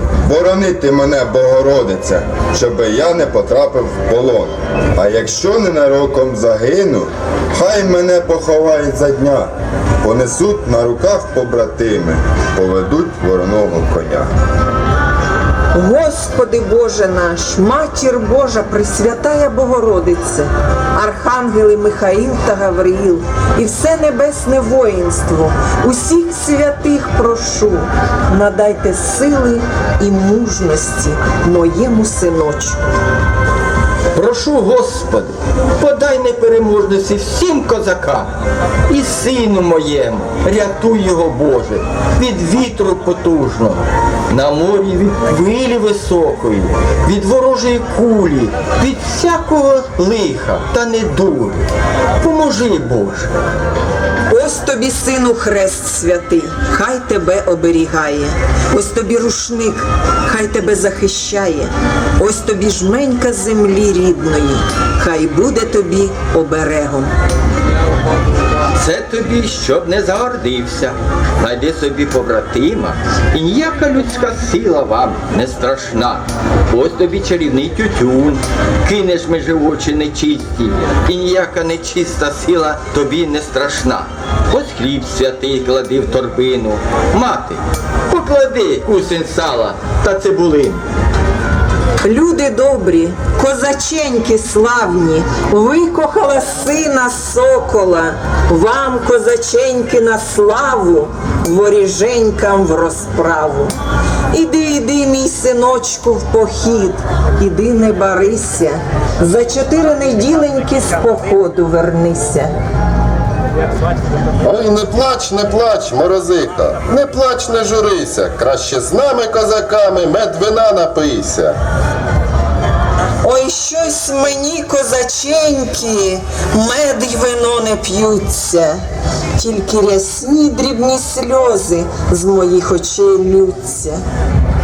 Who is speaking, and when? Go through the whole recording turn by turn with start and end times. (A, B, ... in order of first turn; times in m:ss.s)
0:00.2-0:09.5 A
0:10.0-0:14.3 A
0:15.7-0:32.8 B
0:34.1-0:38.3 C
0:38.9-0:51.7 C
0:52.2-0:53.3 C
0:54.3-1:07.1 B
1:08.8-1:30.8 C
1:32.0-1:43.7 B
1:44.3-1:52.5 B
1:54.4-2:01.6 D
2:03.2-2:08.8 B
2:09.4-2:14.0 B